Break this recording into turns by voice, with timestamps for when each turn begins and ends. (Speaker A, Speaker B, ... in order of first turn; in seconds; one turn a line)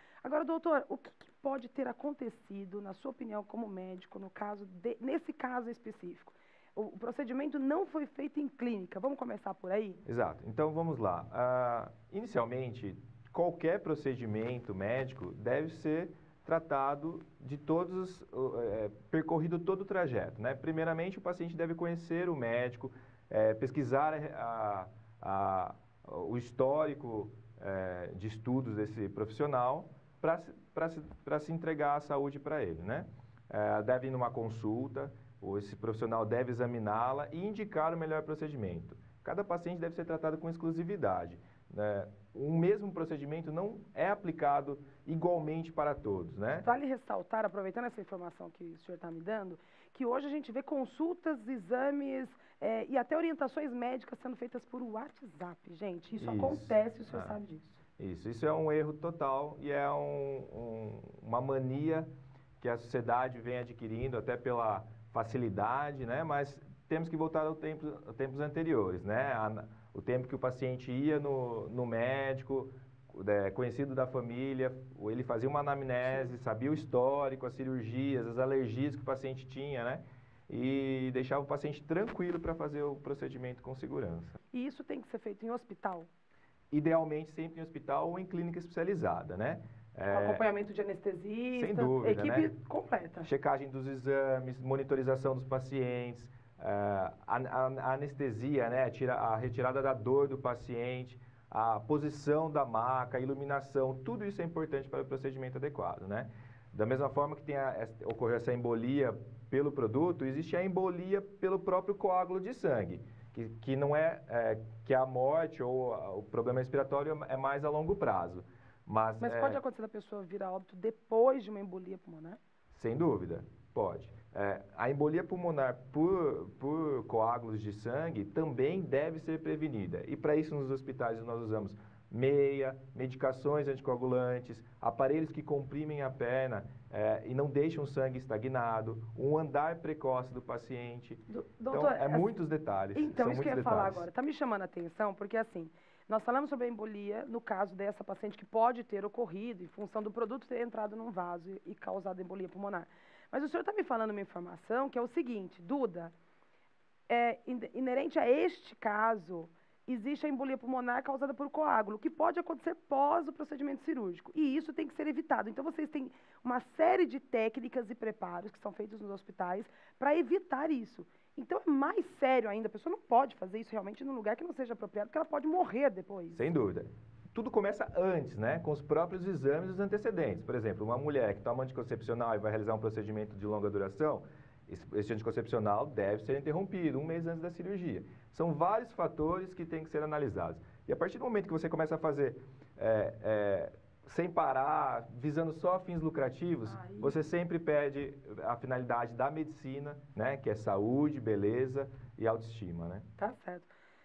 Speaker A: 0.2-10.0
Speaker B: 10.0-46.7
Speaker A: 46.6-57.8
Speaker B: 56.2-57.4
Speaker B: 58.0-84.4
Speaker A: 76.0-76.3
Speaker A: 84.5-86.1
Speaker B: 86.7-90.4
Speaker A: 90.1-93.3
Speaker B: 91.5-92.5
Speaker B: 93.2-119.6
Speaker A: 119.2-122.4
Speaker B: 122.7-144.1
Speaker A: 141.3-142.3
Speaker A: 142.9-156.1
Speaker A: 157.1-176.5
Speaker B: 176.3-203.1
Speaker A: 196.7-197.2
Speaker A: 203.2-203.7